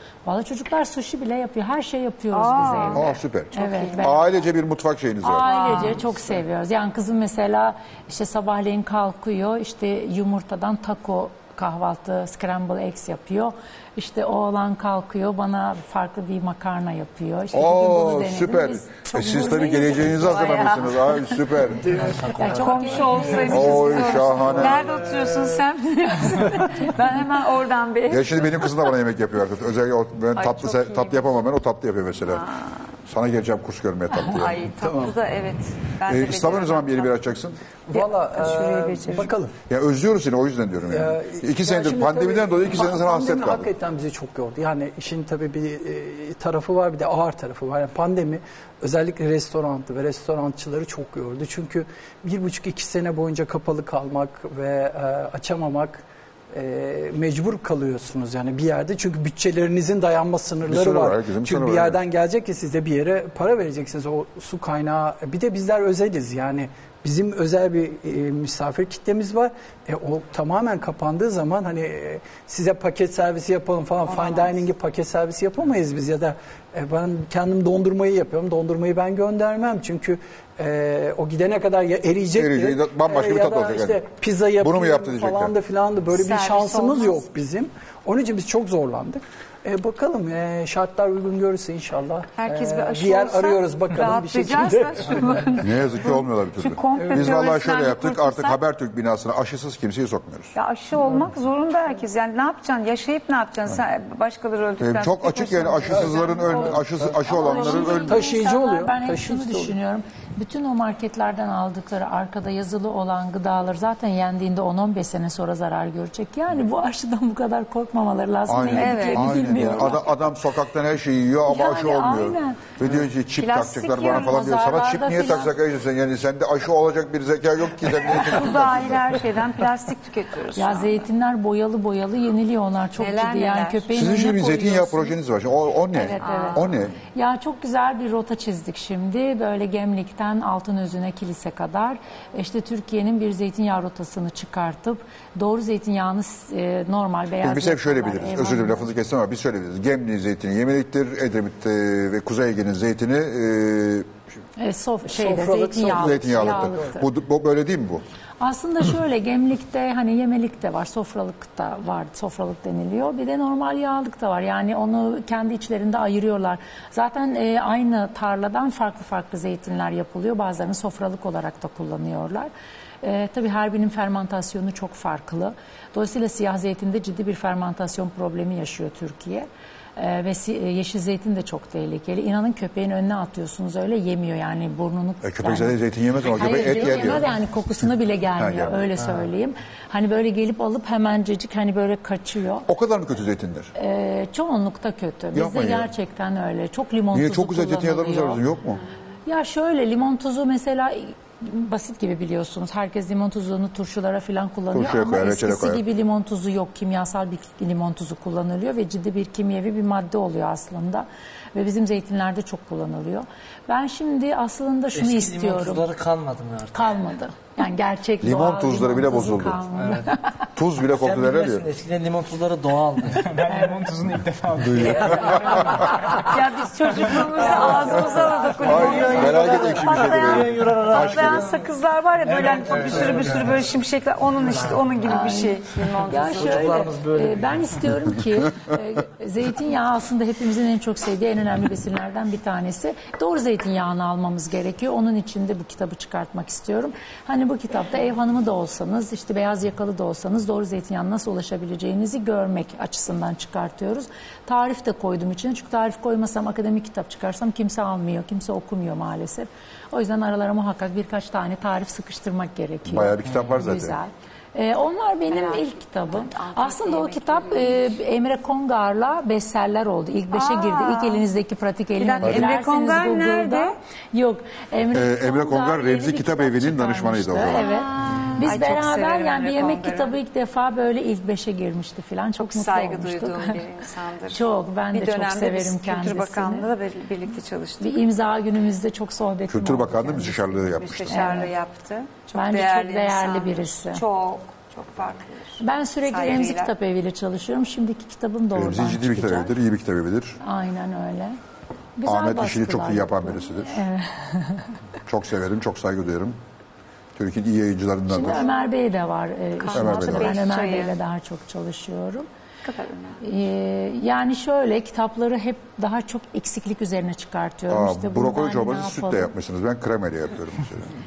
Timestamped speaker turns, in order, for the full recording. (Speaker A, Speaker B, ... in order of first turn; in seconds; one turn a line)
Speaker A: 0.2-4.3
Speaker B: 2.3-4.0
Speaker C: 2.9-5.5
Speaker A: 5.2-20.5
Speaker B: 5.5-5.9
Speaker C: 17.5-22.0
Speaker B: 20.2-21.4
Speaker D: 21.9-23.5
Speaker A: 22.3-24.2
Speaker B: 22.5-28.8
Speaker C: 23.5-25.0
Speaker E: 24.4-25.6
Speaker C: 28.1-32.4
Speaker B: 30.3-31.3
Speaker B: 32.2-32.8
Speaker C: 33.0-34.6
Speaker B: 34.1-37.1
Speaker E: 34.8-35.1
Speaker C: 36.1-37.6
Speaker E: 37.9-39.5
Speaker B: 37.9-39.3
Speaker C: 39.7-43.7
Speaker E: 40.9-95.5
Speaker C: 60.6-62.0
Speaker B: 74.1-74.5
Speaker C: 82.3-84.0
Speaker C: 84.6-85.5
Speaker B: 86.1-87.2
Speaker B: 92.4-98.6
Speaker C: 95.6-100.5
Speaker E: 97.0-97.3
Speaker B: 100.5-106.7
Speaker C: 104.8-108.2
Speaker E: 105.9-109.7
Speaker A: 107.3-120.1
Speaker C: 118.5-129.0
Speaker B: 118.7-119.5
Speaker A: 121.5-122.7
Speaker B: 123.4-124.4
Speaker A: 124.1-125.5
Speaker B: 128.1-131.1
Speaker A: 130.6-135.2
Speaker B: 133.0-133.9
Speaker C: 133.9-136.9
Speaker A: 135.9-148.9
Speaker B: 136.2-136.7
Speaker C: 147.4-154.1
Speaker A: 154.6-157.0
Speaker E: 155.1-157.0
Speaker C: 155.9-158.0
Speaker A: 158.4-172.5
Speaker A: 173.0-192.7
Speaker C: 185.2-187.3
Speaker C: 188.4-188.8
Speaker C: 192.7-193.7
Speaker A: 193.8-198.4
Speaker C: 195.3-195.9
Speaker C: 197.1-198.8
Speaker A: 199.2-215.8
Speaker C: 204.7-205.8
Speaker D: 214.9-216.9
Speaker A: 216.7-220.3
Speaker C: 218.2-219.6
Speaker D: 219.8-220.1
Speaker C: 220.6-221.6
Speaker D: 220.9-223.3
Speaker F: 223.2-225.9
Speaker A: 223.5-223.7
Speaker C: 224.7-225.8
Speaker A: 225.3-226.2
Speaker B: 225.5-236.7
Speaker A: 227.4-229.0
Speaker D: 227.4-231.6
Speaker C: 228.6-231.5
Speaker D: 232.3-233.6
Speaker D: 234.5-234.8
Speaker A: 235.0-283.6
Speaker D: 236.2-237.8
Speaker C: 262.9-263.9
Speaker B: 265.3-268.0
Speaker B: 270.3-271.2
Speaker B: 272.0-273.8
Speaker C: 272.2-272.5
Speaker C: 274.9-277.7
Speaker B: 277.5-280.1
Speaker B: 282.5-288.0
Speaker A: 284.3-286.7
Speaker A: 287.8-291.5
Speaker C: 289.5-291.4
Speaker B: 290.7-296.7
Speaker A: 292.3-294.0
Speaker A: 295.6-299.5
Speaker C: 298.5-300.4
Speaker A: 300.4-301.4
Speaker A: 302.0-304.8
Speaker C: 302.0-303.8
Speaker C: 305.1-306.4
Speaker C: 307.1-308.4
Speaker A: 308.1-312.3
Speaker B: 309.6-310.9
Speaker C: 309.7-310.4
Speaker B: 312.6-313.2
Speaker A: 313.2-319.3
Speaker C: 317.7-320.9